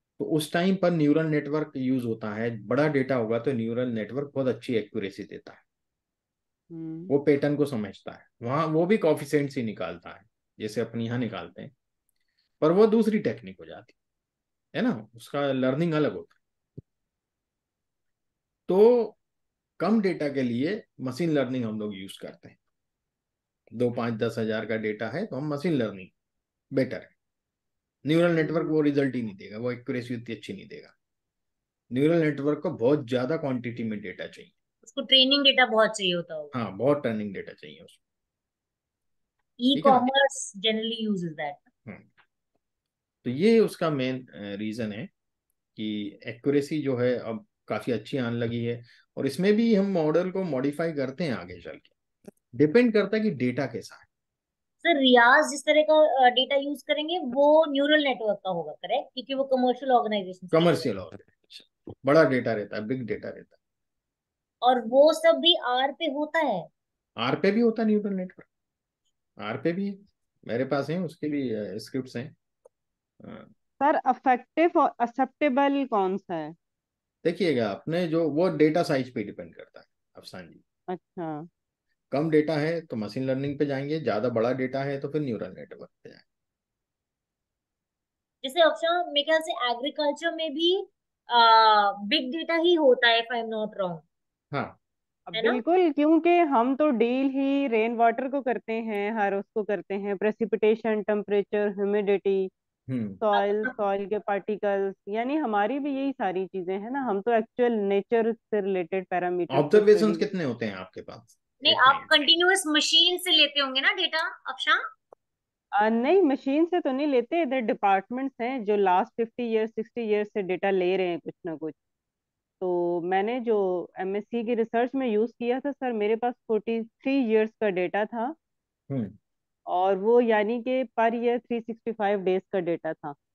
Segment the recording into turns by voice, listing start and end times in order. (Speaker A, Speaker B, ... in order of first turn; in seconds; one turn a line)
Speaker A: 0.2-5.6
Speaker B: 6.7-7.1
Speaker A: 7.1-11.7
Speaker A: 12.6-13.9
Speaker A: 14.7-16.4
Speaker A: 18.7-19.2
Speaker A: 19.8-22.6
Speaker A: 23.7-26.1
Speaker A: 26.7-27.1
Speaker A: 28.0-30.9
Speaker B: 28.4-28.7
Speaker A: 31.9-34.5
Speaker C: 34.8-36.5
Speaker A: 36.5-38.0
Speaker C: 39.6-41.6
Speaker A: 39.7-40.0
Speaker A: 43.2-45.1
Speaker A: 45.8-51.9
Speaker A: 52.5-54.0
Speaker C: 54.8-60.9
Speaker A: 60.5-63.5
Speaker C: 64.6-66.7
Speaker A: 67.2-68.5
Speaker A: 69.4-72.3
Speaker A: 73.2-73.5
Speaker B: 73.8-76.5
Speaker A: 77.2-80.6
Speaker B: 80.9-81.5
Speaker A: 82.1-86.2
Speaker C: 88.4-94.0
Speaker A: 94.5-94.8
Speaker B: 95.3-102.5
Speaker C: 95.3-95.6
Speaker A: 102.9-103.2
Speaker B: 103.2-110.2
Speaker C: 103.3-103.7
Speaker A: 109.5-112.2
Speaker C: 111.6-114.8
Speaker B: 115.8-121.7
Speaker B: 122.6-128.3
Speaker A: 128.9-129.2
Speaker B: 129.7-133.1